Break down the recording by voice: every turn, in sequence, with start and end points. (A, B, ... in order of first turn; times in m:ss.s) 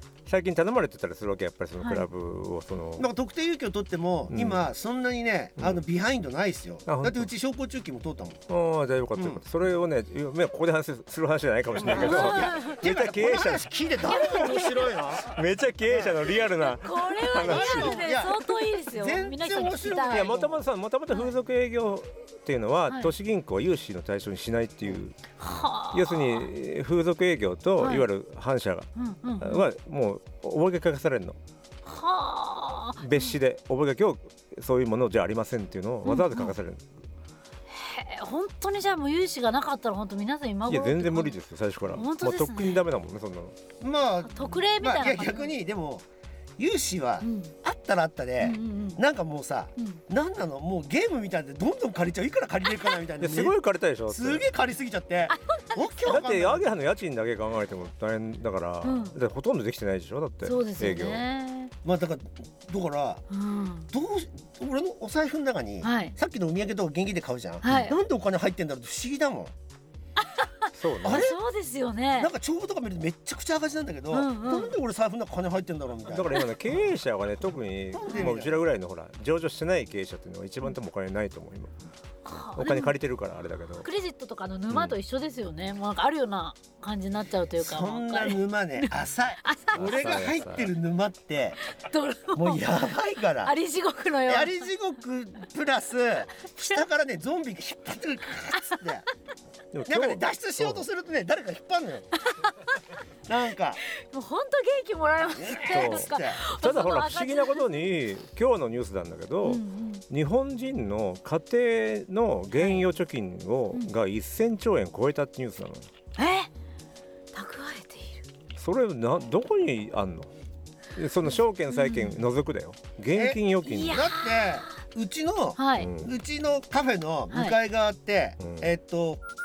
0:00.2-0:03.1 A
0:03.0-0:08.4 B
0:04.3-0:04.6 A
0:06.8-0:07.3 A
0:08.5-0:14.6 A
0:09.2-0:09.4 B
0:11.8-0:15.3 B
0:11.8-0:12.8 C
0:14.0-0:15.0 C
0:15.2-0:18.0 A
0:15.9-0:16.3 B
0:16.5-0:20.4 C
0:17.4-0:20.6 B
0:20.1-0:31.4 A
0:25.4-0:26.5 C
0:27.8-0:28.1 C
0:29.0-0:29.6 C
0:31.8-0:33.4 C
0:33.0-0:36.8 A
0:36.0-0:36.5 C
0:37.7-0:41.4 C
0:40.6-0:43.6 A
0:41.9-0:42.8 C
0:43.8-0:46.0 B
0:44.2-0:45.5 C
0:46.6-0:56.7 B
0:47.2-0:47.5 C
0:48.4-0:49.0 C
0:53.2-0:54.5 A
0:55.3-0:56.0 C
0:56.0-1:01.2 A
0:58.8-0:59.1 C
1:00.4-1:01.7 C
1:01.8-1:03.2 B
1:03.3-1:03.9 C
1:03.9-1:09.5 B
1:05.8-1:06.1 C
1:07.6-1:08.0 C
1:10.2-1:12.3 C
1:10.7-1:11.3 A
1:11.0-1:11.4 B
1:12.2-1:16.8 B
1:14.1-1:14.7 C
1:16.0-1:21.7 A
1:17.9-1:18.6 B
1:18.1-1:18.3 C
1:22.2-1:23.0 C
1:22.5-1:23.9 A
1:23.8-1:28.9 C
1:27.6-1:31.6 B
1:29.4-1:29.9 C
1:29.7-1:30.7 A
1:31.7-1:32.8 C
1:32.3-1:33.5 B
1:33.4-1:34.7 C
1:34.2-1:39.0 B
1:39.7-1:40.8 A
1:39.8-1:42.1 B
1:42.2-1:42.7 C
1:43.2-1:43.8 B
1:43.9-1:47.8 C
1:45.3-1:46.4 B
1:45.7-1:55.8 A
1:49.4-1:50.0 C
1:52.5-1:52.8 C
1:56.2-1:56.5 C
1:57.3-1:58.2 C
1:58.6-2:00.3 A
2:00.9-2:04.1 A
2:01.7-2:02.2 C
2:03.1-2:09.2 B
2:03.7-2:04.7 C
2:05.6-2:05.9 C
2:05.8-2:06.1 A
2:07.3-2:07.6 C
2:08.4-2:08.7 A